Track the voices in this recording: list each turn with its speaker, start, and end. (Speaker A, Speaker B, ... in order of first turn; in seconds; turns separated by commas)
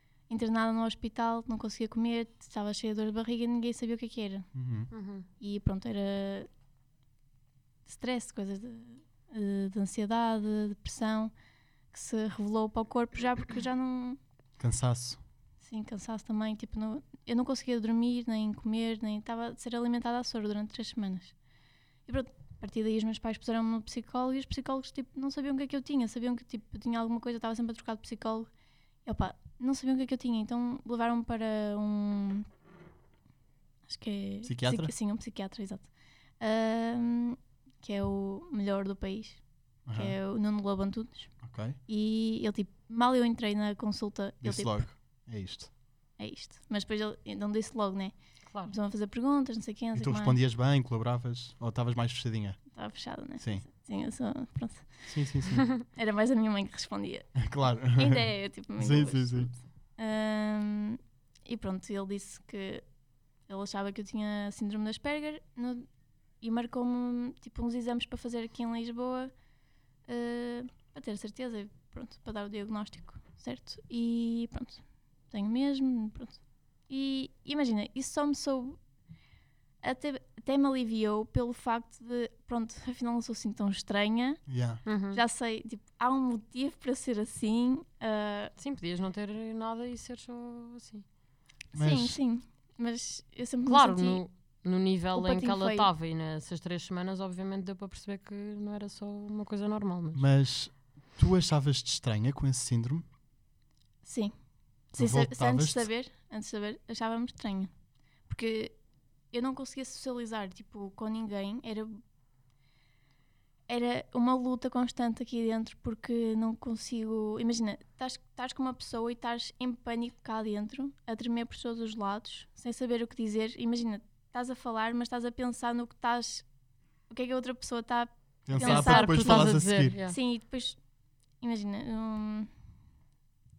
Speaker A: 0.3-4.5, Speaker B: 4.5-4.9, Speaker C: 4.9-5.2, Speaker A: 5.4-6.5, Speaker A: 7.9-11.3, Speaker A: 11.9-14.2, Speaker B: 14.6-15.2, Speaker A: 15.6-21.3, Speaker A: 22.1-28.5, Speaker A: 29.0-32.5, Speaker A: 33.9-41.4, Speaker B: 34.4-34.9, Speaker B: 39.9-40.1, Speaker B: 41.4-41.8, Speaker A: 41.9-44.8, Speaker B: 44.4-45.7, Speaker A: 46.2-50.4, Speaker C: 48.5-48.7, Speaker B: 49.9-52.6, Speaker A: 52.7-55.1, Speaker B: 53.4-53.6, Speaker B: 55.1-55.7, Speaker A: 55.8-62.8, Speaker B: 57.4-59.5, Speaker A: 63.5-65.9, Speaker A: 66.4-69.3, Speaker A: 70.1-78.8, Speaker A: 79.8-88.5, Speaker B: 84.5-84.8, Speaker C: 84.8-85.2, Speaker C: 88.6-91.0, Speaker A: 91.7-94.2, Speaker B: 91.7-92.2, Speaker C: 93.7-100.2, Speaker A: 95.1-95.9, Speaker B: 100.1-103.0, Speaker A: 104.0-104.3, Speaker A: 104.9-107.7, Speaker B: 105.0-105.9, Speaker A: 108.3-108.7, Speaker A: 109.3-112.0, Speaker A: 113.7-126.4, Speaker A: 127.1-130.8, Speaker B: 128.4-129.9, Speaker C: 128.6-130.2, Speaker A: 131.4-132.5